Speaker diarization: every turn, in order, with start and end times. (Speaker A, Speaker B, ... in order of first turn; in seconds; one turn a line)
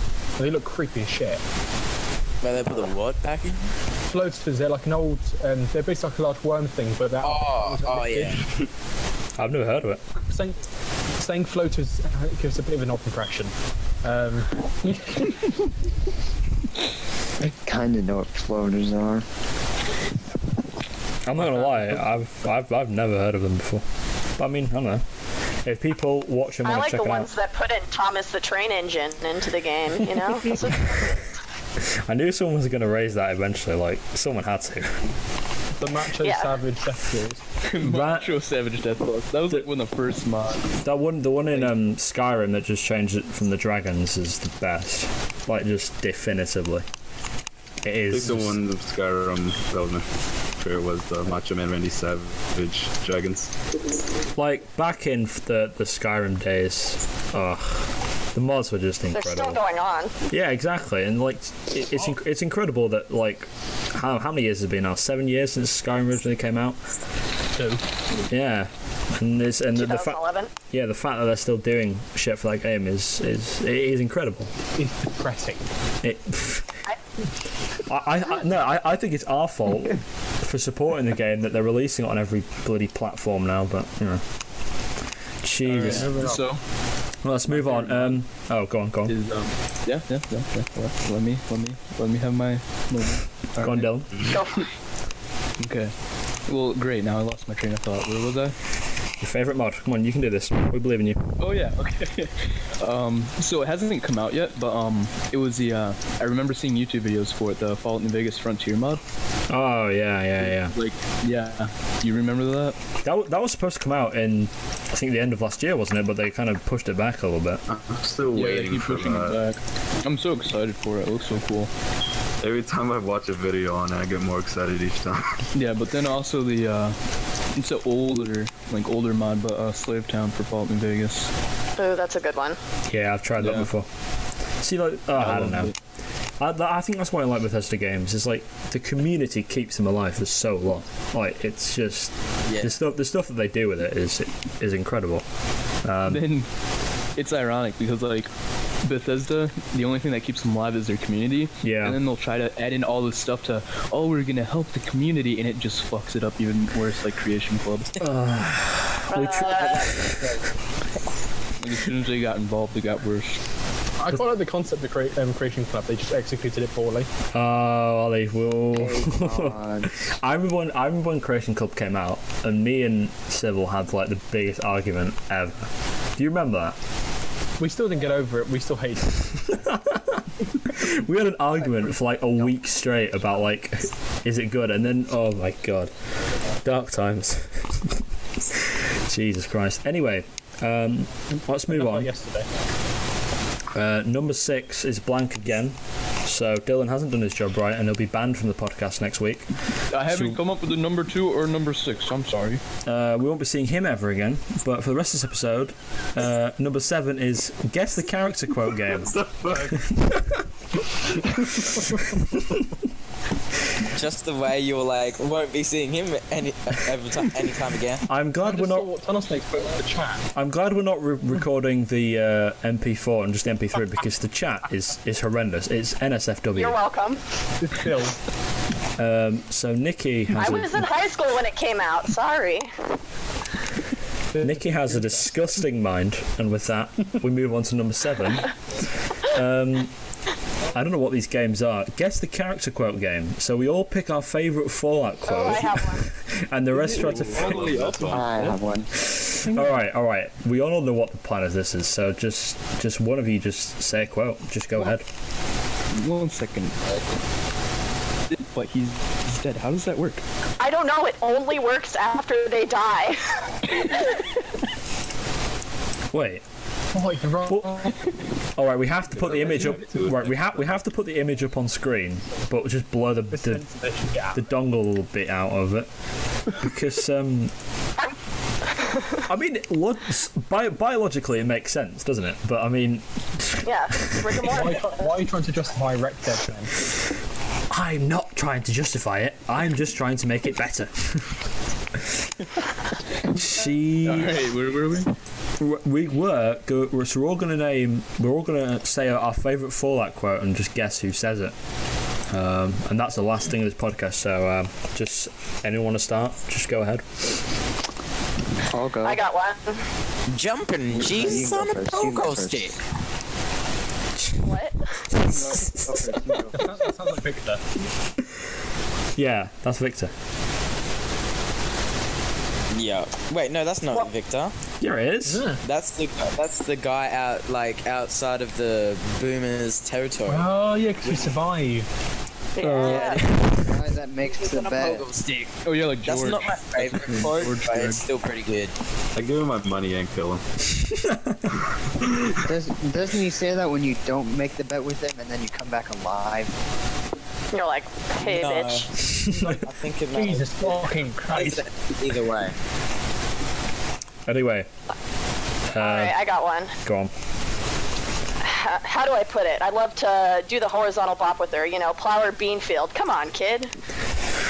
Speaker A: 0.4-1.4
Speaker B: 2.4-3.7
Speaker A: 4.1-8.4
Speaker B: 7.2-8.5
Speaker C: 9.4-10.0
Speaker A: 10.3-10.6
Speaker A: 11.2-13.5
Speaker A: 14.0-15.6
Speaker D: 17.4-19.2
Speaker C: 21.2-23.9
Speaker C: 24.4-25.1
Speaker C: 25.6-27.3
Speaker E: 26.6-31.2
Speaker C: 30.6-31.2
Speaker C: 31.8-35.1
Speaker A: 35.8-37.4
Speaker E: 36.2-36.5
Speaker F: 37.7-40.8
Speaker C: 37.8-38.4
Speaker C: 40.8-46.9
Speaker C: 47.8-48.6
Speaker G: 48.1-50.1
Speaker G: 50.6-53.5
Speaker C: 54.4-59.6
Speaker E: 59.1-60.1
Speaker C: 60.3-66.8
Speaker A: 67.5-67.8
Speaker C: 68.3-70.2
Speaker E: 69.8-70.5
Speaker C: 70.7-74.5
Speaker A: 74.8-75.6
Speaker C: 76.0-76.8
Speaker C: 77.9-84.2
Speaker C: 85.4-86.1
Speaker A: 85.7-86.4
Speaker F: 85.7-86.6
Speaker C: 87.2-89.2
Speaker F: 87.5-88.2
Speaker F: 89.1-93.9
Speaker C: 93.6-94.2
Speaker E: 94.3-94.7
Speaker F: 95.6-95.9
Speaker F: 96.5-98.5
Speaker C: 99.2-101.3
Speaker F: 101.4-109.0
Speaker C: 109.5-110.8
Speaker F: 110.4-112.8
Speaker C: 113.0-117.6
Speaker G: 117.7-119.4
Speaker F: 118.3-121.7
Speaker G: 122.4-125.4
Speaker F: 125.5-127.0
Speaker F: 127.6-131.3
Speaker E: 131.8-132.6
Speaker C: 132.9-133.9
Speaker F: 133.4-133.7
Speaker C: 134.6-135.7
Speaker F: 135.2-135.8
Speaker C: 136.4-145.3
Speaker B: 142.5-142.8
Speaker C: 145.8-146.3
Speaker F: 146.1-146.5
Speaker F: 147.2-148.3
Speaker F: 148.8-157.9
Speaker C: 151.6-152.0
Speaker C: 158.0-160.2
Speaker E: 159.1-159.9
Speaker B: 159.7-160.3
Speaker F: 161.6-163.4
Speaker A: 164.0-167.1
Speaker C: 167.3-176.8
Speaker D: 168.7-169.9
Speaker A: 177.6-179.3
Speaker C: 179.5-185.9
Speaker C: 186.6-192.1
Speaker A: 191.7-192.5
Speaker C: 193.7-199.5
Speaker F: 199.9-202.6
Speaker C: 200.1-200.4
Speaker C: 202.9-209.2
Speaker G: 208.9-209.9
Speaker C: 209.7-210.2
Speaker C: 212.3-212.6
Speaker B: 213.9-218.1
Speaker C: 218.1-218.9
Speaker A: 218.4-220.3
Speaker C: 220.3-226.8
Speaker E: 226.5-227.2
Speaker A: 227.6-228.2
Speaker C: 229.0-230.9
Speaker E: 230.4-232.7
Speaker A: 234.3-235.3
Speaker C: 234.4-239.9
Speaker C: 240.7-247.8
Speaker E: 245.2-246.1
Speaker F: 246.7-248.8
Speaker G: 246.9-248.5
Speaker D: 248.1-248.9
Speaker C: 249.0-255.1
Speaker F: 255.9-257.0
Speaker F: 258.3-260.2
Speaker E: 260.6-263.3
Speaker C: 266.1-266.4
Speaker A: 266.9-267.9
Speaker C: 267.5-267.9
Speaker C: 268.6-273.6
Speaker G: 269.1-270.8
Speaker F: 269.2-270.1
Speaker A: 273.3-274.4
Speaker C: 274.3-275.9
Speaker C: 276.5-277.5
Speaker E: 278.8-279.2
Speaker C: 279.3-284.7
Speaker E: 283.7-285.1
Speaker A: 284.5-286.7
Speaker C: 287.7-291.4
Speaker C: 293.3-294.4
Speaker F: 294.0-295.1
Speaker C: 295.6-301.6
Speaker C: 302.3-307.4
Speaker D: 308.7-309.2
Speaker E: 309.0-309.9
Speaker B: 310.3-312.8
Speaker D: 310.9-312.8
Speaker E: 314.4-315.1
Speaker D: 315.2-316.8
Speaker C: 315.2-316.4
Speaker A: 316.5-317.7
Speaker C: 319.2-320.1
Speaker B: 322.7-324.5
Speaker C: 324.8-325.5
Speaker A: 325.3-325.6
Speaker B: 325.6-330.5
Speaker A: 330.3-331.9
Speaker B: 331.0-331.3
Speaker E: 332.6-333.3
Speaker C: 332.6-333.2
Speaker B: 332.8-338.7
Speaker D: 333.6-335.1
Speaker F: 335.6-338.0
Speaker G: 339.1-340.5
Speaker C: 340.9-341.6
Speaker D: 342.4-346.6
Speaker E: 347.5-348.9
Speaker B: 348.2-352.6
Speaker A: 350.1-351.6
Speaker C: 354.3-354.7
Speaker C: 355.7-356.2
Speaker E: 355.8-356.7
Speaker C: 356.9-357.1
Speaker E: 358.4-363.7